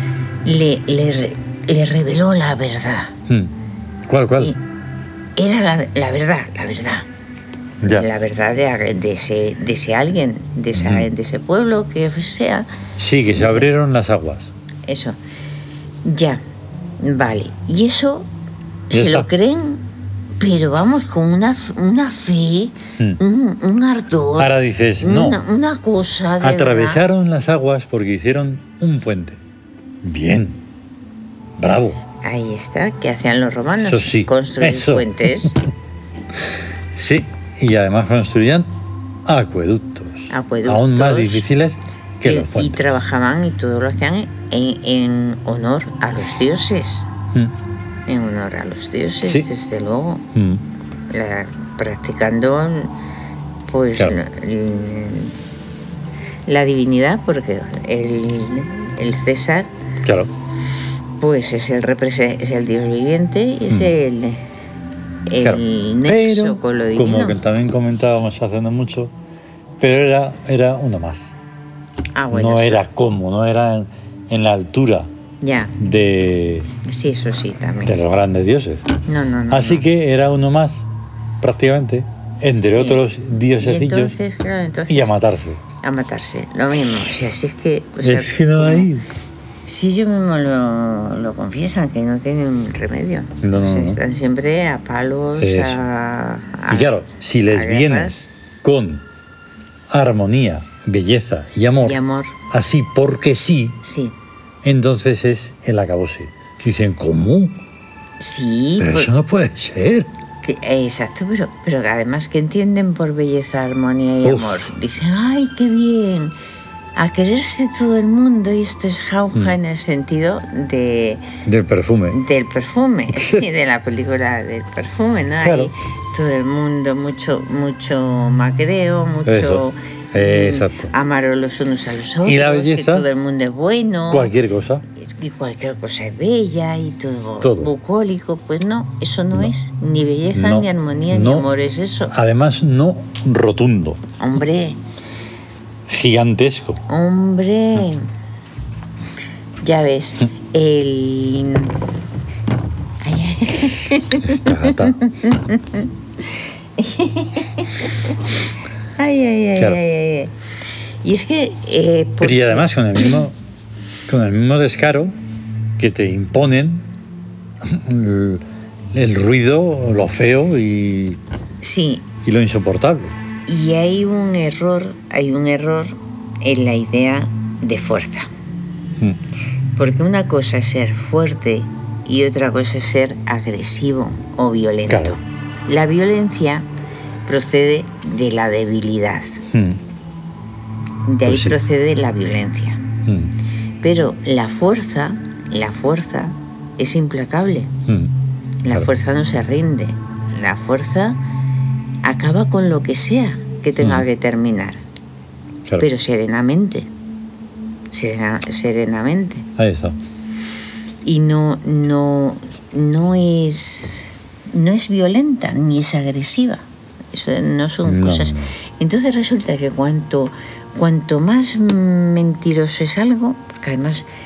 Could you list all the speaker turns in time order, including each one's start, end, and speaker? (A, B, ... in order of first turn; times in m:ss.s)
0:00.4-0:03.1 A
0:04.1-0:04.6 B
0:05.4-0:07.1 A
0:07.8-0:08.1 B
0:07.8-0:12.7 A
0:10.7-0:11.1 B
0:13.0-0:14.5 B
0:13.3-0:13.7 A
0:14.9-0:15.2 A
0:16.0-0:16.4 A
0:17.0-0:18.3 A
0:18.9-0:19.8 A
0:18.9-0:19.3 B
0:20.4-0:27.0 A
0:24.4-0:25.4 B
0:26.4-0:29.4 B
0:30.0-0:30.6 B
0:31.6-0:32.0 B
0:32.2-0:35.6 A
0:33.8-0:35.6 B
0:37.0-0:38.7 B
0:39.3-0:42.8 B
0:40.3-0:41.5 A
0:42.2-0:47.1 A
0:48.1-0:50.2 A
0:49.2-0:49.5 B
0:50.4-0:50.6 B
0:51.1-0:52.9 A
0:53.7-0:55.4 A
0:56.5-0:59.7 A
1:00.0-1:00.3 B
1:01.2-1:04.4 A
1:05.3-1:07.4 A
1:05.4-1:09.1 B
1:09.8-1:11.3 B
1:12.2-1:12.8 A
1:12.3-1:15.1 B
1:15.4-1:15.7 A
1:15.8-1:16.7 B
1:16.9-1:18.0 A
1:17.8-1:18.9 B
1:19.1-1:19.8 A
1:19.5-1:20.9 B
1:21.4-1:24.2 B
1:22.6-1:23.0 A
1:23.6-1:25.2 A
1:24.9-1:25.6 B
1:25.8-1:28.9 A
1:28.0-1:29.0 B
1:29.7-1:37.0 A
1:33.4-1:34.0 B
1:35.4-1:35.8 B
1:36.7-1:39.0 B
1:37.5-1:38.3 A
1:39.9-1:42.0 B
1:41.8-1:42.4 A
1:42.5-1:43.8 B
1:43.8-1:44.1 A
1:44.6-1:47.5 B
1:48.2-1:49.1 A
1:48.8-1:50.1 B
1:50.4-1:56.3 A
1:54.2-1:54.7 B
1:57.0-2:01.2 A
2:01.4-2:02.2 B
2:02.1-2:14.3 A
2:05.4-2:05.7 B
2:09.2-2:10.9 B
2:12.2-2:13.1 B
2:14.1-2:14.8 B
2:15.0-2:22.1 A
2:17.4-2:17.7 B
2:20.3-2:21.5 B
2:22.1-2:24.0 B
2:24.2-2:24.8 A
2:25.9-2:26.8 B
2:26.9-2:28.1 A
2:29.6-2:31.8 A
2:33.0-2:35.9 A
2:34.2-2:35.0 B
2:36.8-2:38.1 A
2:39.0-2:40.3 A
2:39.5-2:39.8 B
2:41.0-2:43.2 A
2:42.2-2:43.4 B
2:44.1-2:45.2 B
2:45.8-2:46.9 B
2:47.6-2:51.2 B
2:51.6-2:52.1 A
2:52.2-2:53.2 B
2:53.5-2:58.3 A
2:59.8-3:06.7 A
3:04.9-3:05.2 B
3:07.3-3:09.4 A
3:09.5-3:09.8 B
3:11.1-3:12.8 A
3:11.3-3:11.6 B
3:13.0-3:13.3 B
3:13.8-3:17.7 A
3:17.9-3:18.1 B
3:18.6-3:21.2 A
3:22.0-3:24.8 A
3:23.8-3:24.1 B
3:25.8-3:26.9 A
3:27.9-3:29.5 A
3:29.6-3:30.0 B
3:31.0-3:44.1 A
3:37.8-3:38.6 B